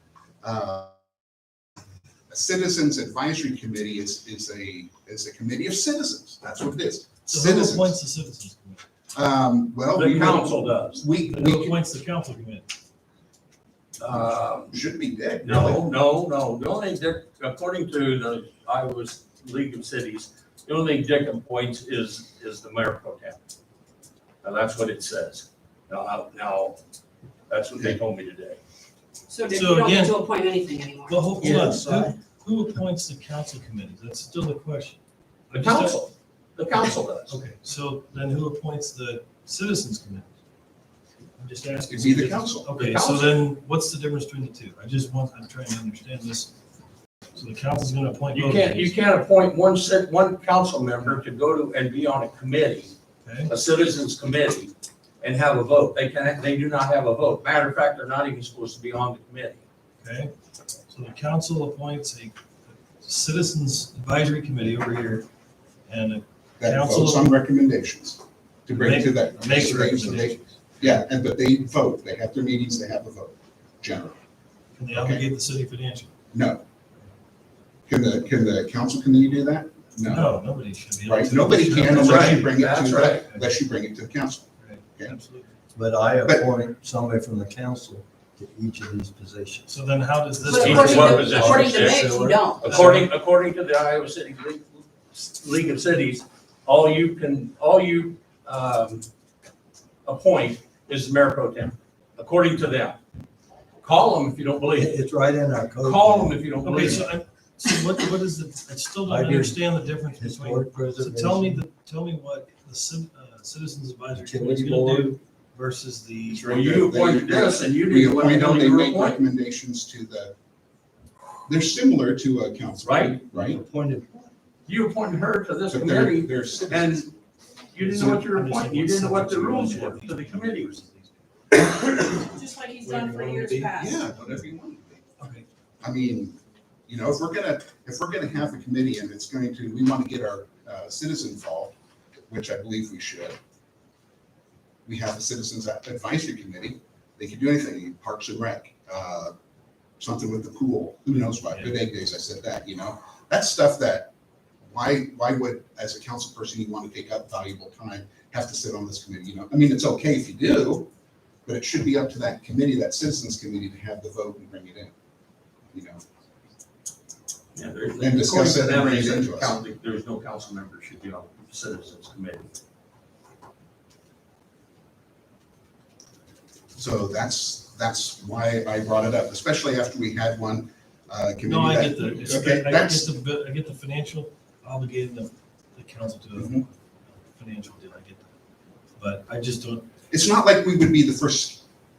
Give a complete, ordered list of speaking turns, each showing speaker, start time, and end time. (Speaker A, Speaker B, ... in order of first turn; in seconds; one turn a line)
Speaker A: 0.4-0.9
Speaker A: 2.3-8.0
Speaker B: 7.3-8.8
Speaker A: 9.1-11.8
Speaker C: 9.9-11.0
Speaker B: 11.2-12.7
Speaker C: 14.0-14.8
Speaker A: 14.7-15.8
Speaker C: 15.4-23.4
Speaker C: 24.4-26.8
Speaker C: 27.5-28.6
Speaker D: 29.3-31.5
Speaker B: 29.5-30.2
Speaker B: 31.1-35.0
Speaker E: 31.4-32.1
Speaker C: 31.4-31.8
Speaker B: 35.5-36.0
Speaker C: 35.5-37.3
Speaker B: 37.3-40.3
Speaker B: 41.4-46.5
Speaker A: 41.9-42.7
Speaker C: 42.7-43.4
Speaker B: 47.3-48.9
Speaker C: 48.3-52.9
Speaker B: 53.2-53.5
Speaker C: 53.5-59.6
Speaker B: 60.0-60.3
Speaker B: 60.9-65.3
Speaker B: 65.9-67.3
Speaker A: 66.6-74.2
Speaker B: 68.7-70.9
Speaker B: 74.8-76.1
Speaker A: 74.9-75.2
Speaker A: 76.3-76.6
Speaker A: 77.9-80.3
Speaker B: 80.0-82.5
Speaker A: 81.1-85.2
Speaker C: 81.9-83.2
Speaker B: 84.6-85.6
Speaker E: 85.7-89.7
Speaker B: 89.7-91.3
Speaker E: 90.4-92.4
Speaker D: 90.5-92.8
Speaker C: 90.6-92.1
Speaker C: 92.6-99.1
Speaker B: 92.6-93.1
Speaker C: 100.0-103.0
Speaker C: 103.8-105.0
Speaker E: 104.7-107.0
Speaker C: 105.8-107.1
Speaker B: 106.6-116.5
Speaker E: 109.0-109.6
Speaker E: 110.1-111.6
Speaker E: 114.1-115.2
Speaker A: 116.3-120.3
Speaker C: 116.4-119.2
Speaker A: 121.5-123.6
Speaker C: 122.8-123.2
Speaker E: 123.3-124.3
Speaker C: 124.7-127.1
Speaker A: 125.7-127.1
Speaker C: 127.7-130.7
Speaker B: 127.8-131.2
Speaker D: 132.2-134.0
Speaker E: 132.9-133.6
Speaker B: 133.0-133.6
Speaker A: 133.7-135.0
Speaker A: 135.8-141.7
Speaker A: 142.3-143.4
Speaker A: 144.8-149.3
Speaker A: 150.0-160.9
Speaker B: 151.5-151.8
Speaker A: 161.4-164.9
Speaker A: 165.7-166.0
Speaker C: 167.5-172.5
Speaker A: 168.0-169.6
Speaker A: 176.8-183.1
Speaker B: 181.4-188.3
Speaker A: 186.3-186.7
Speaker B: 189.0-189.9
Speaker A: 190.1-191.7